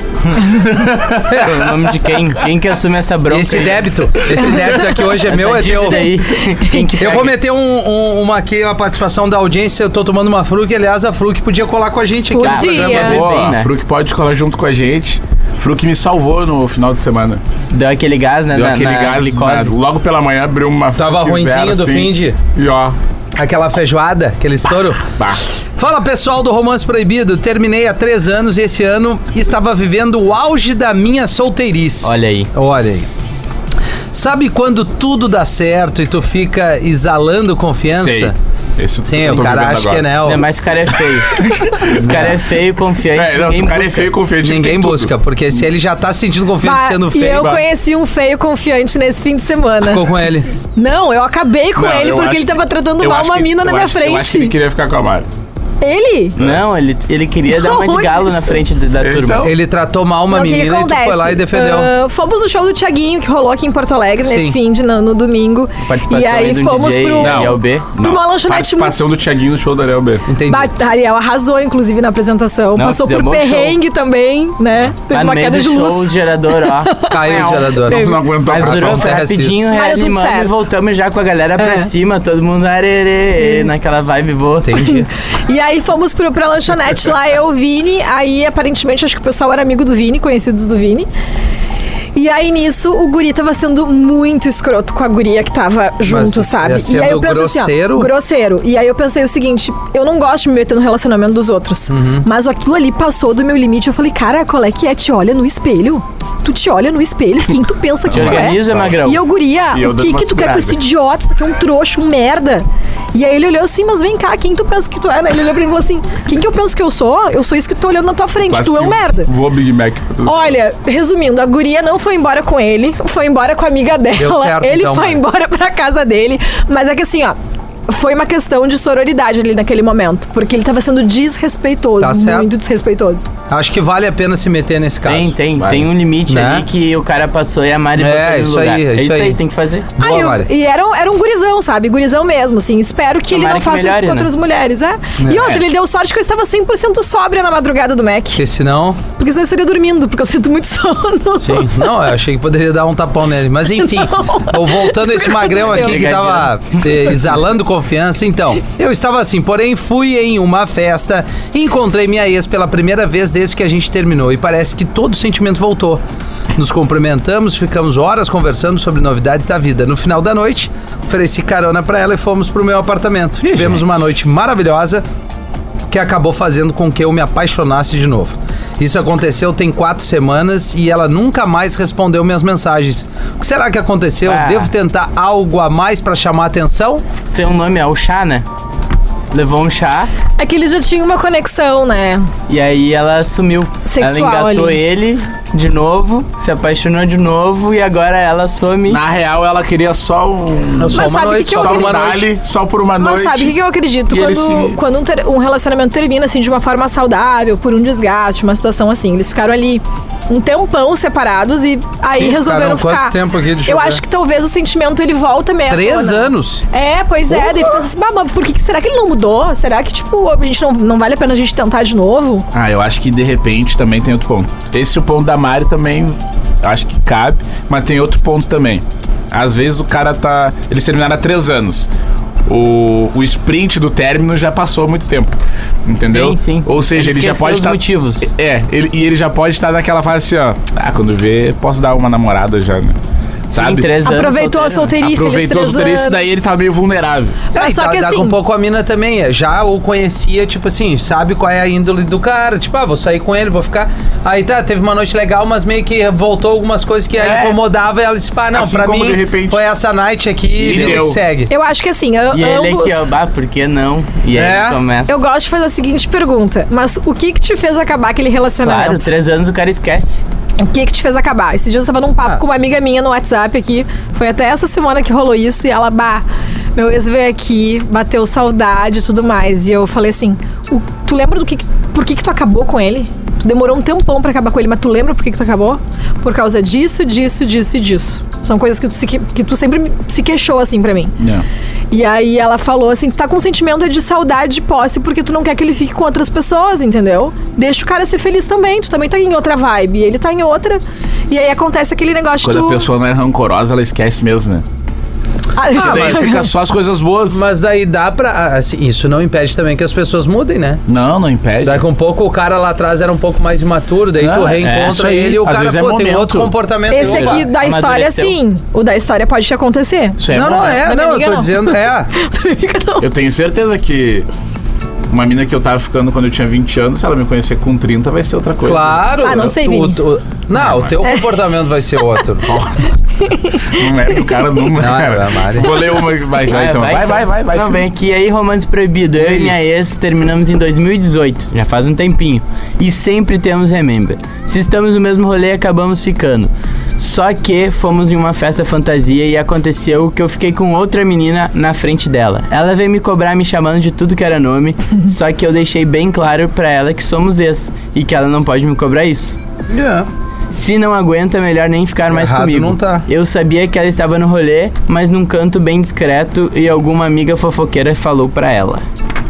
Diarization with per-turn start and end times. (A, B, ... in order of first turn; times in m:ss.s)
0:00.3-0:01.7 A
0:01.3-0:07.4 B
0:03.3-0:06.2 C
0:07.0-0:13.1 C
0:12.3-0:13.2 D
0:12.4-0:13.7 B
0:12.5-0:17.4 A
0:17.7-0:19.7 B
0:18.5-0:23.0 A
0:21.0-0:22.4 C
0:23.4-0:25.1 C
0:25.8-0:33.1 C
0:32.0-0:32.5 B
0:34.1-0:38.4 C
0:37.9-0:40.1 A
0:39.1-0:40.5 C
0:40.2-0:44.1 B
0:41.3-0:42.3 A
0:41.9-0:42.3 C
0:43.1-0:45.1 A
0:44.4-0:47.6 C
0:46.6-0:50.1 D
0:49.8-0:50.5 C
0:50.7-0:54.5 D
0:51.7-0:55.3 A
0:55.8-0:56.3 D
0:56.4-0:56.6 A
0:56.4-0:59.5 B
0:57.5-0:58.6 D
0:59.0-0:59.5 A
0:59.4-1:01.9 C
1:00.3-1:08.9 D
1:04.2-1:04.6 C
1:05.8-1:07.9 B
1:07.2-1:10.3 A
1:10.3-1:10.7 C
1:10.5-1:18.2 D
1:12.8-1:13.8 B
1:15.1-1:16.9 B
1:17.0-1:19.6 C
1:17.8-1:19.3 A
1:18.4-1:25.1 B
1:19.7-1:20.6 D
1:21.6-1:21.9 D
1:24.6-1:25.0 C
1:24.9-1:31.1 D
1:32.1-1:59.3 D
1:36.0-1:38.1 C
1:41.9-1:42.2 C
1:48.1-1:48.9 A
1:48.1-1:49.2 B
1:49.7-1:50.8 A
1:58.5-2:00.6 A
2:00.2-2:07.4 D
2:04.1-2:05.2 C
2:07.9-2:13.3 D
2:12.0-2:12.5 C
2:13.5-2:15.3 C
2:15.0-2:19.9 B
2:15.6-2:15.9 A
2:16.2-2:16.6 C
2:18.0-2:19.4 C
2:20.0-2:20.5 C
2:20.0-2:28.4 D
2:23.3-2:24.3 B
2:25.2-2:25.5 C
2:25.4-2:25.6 A
2:28.3-2:29.0 C
2:29.1-2:32.0 D
2:31.4-2:46.0 C
2:33.8-2:36.1 D
2:35.7-2:36.8 B
2:46.5-2:55.0 C
2:53.4-2:53.9 A
2:55.9-3:07.0 C
3:04.2-3:04.7 B
3:07.3-3:08.4 B
3:09.3-3:10.1 B
3:10.4-3:12.3 D
3:12.5-3:19.0 B
3:13.9-3:14.8 D
3:18.9-3:23.5 A
3:20.8-3:22.3 C
3:20.9-3:22.0 D
3:23.0-3:42.4 D
3:24.1-3:24.8 A
3:32.2-3:34.0 C
3:35.7-3:36.6 C
3:37.3-3:37.7 C
3:42.5-3:51.9 A
3:52.5-3:55.3 A
3:55.8-4:03.0 A
3:56.1-3:58.3 B
4:03.5-4:03.9 A
4:03.5-4:05.0 B
4:04.0-4:06.2 D
4:05.0-4:07.5 A
4:07.5-4:21.5 C
4:07.5-4:08.3 D
4:17.2-4:17.6 A
4:18.5-4:19.6 A
4:20.6-4:21.2 A
4:21.5-4:23.1 D
4:22.3-4:25.2 B
4:24.3-4:24.8 C
4:25.1-4:29.2 D
4:28.6-4:30.2 B
4:30.6-4:51.1 D
4:51.2-4:51.4 A
4:51.9-5:02.9 D
5:02.4-5:04.6 A
5:05.5-5:06.5 D
5:05.7-5:07.4 A
5:05.7-5:06.4 C
5:07.3-5:10.8 C
5:10.9-5:11.8 A
5:11.6-5:17.5 C
5:14.2-5:16.5 A
5:14.6-5:14.9 B
5:16.9-5:20.2 D
5:17.0-5:18.4 B
5:20.2-5:20.9 A
5:20.3-5:22.1 C
5:20.7-5:23.1 D
5:23.0-5:24.3 A
5:25.1-5:29.5 A
5:28.6-5:32.5 C
5:29.2-5:30.0 D
5:30.5-5:30.9 A
5:31.0-5:31.4 D
5:32.4-5:32.8 A
5:33.2-5:33.8 D
5:33.6-5:37.8 A
5:34.8-5:35.8 C
5:36.5-5:59.4 B
5:39.2-5:39.5 A
5:59.7-6:00.1 C
6:00.5-6:08.8 B
6:02.1-6:03.0 C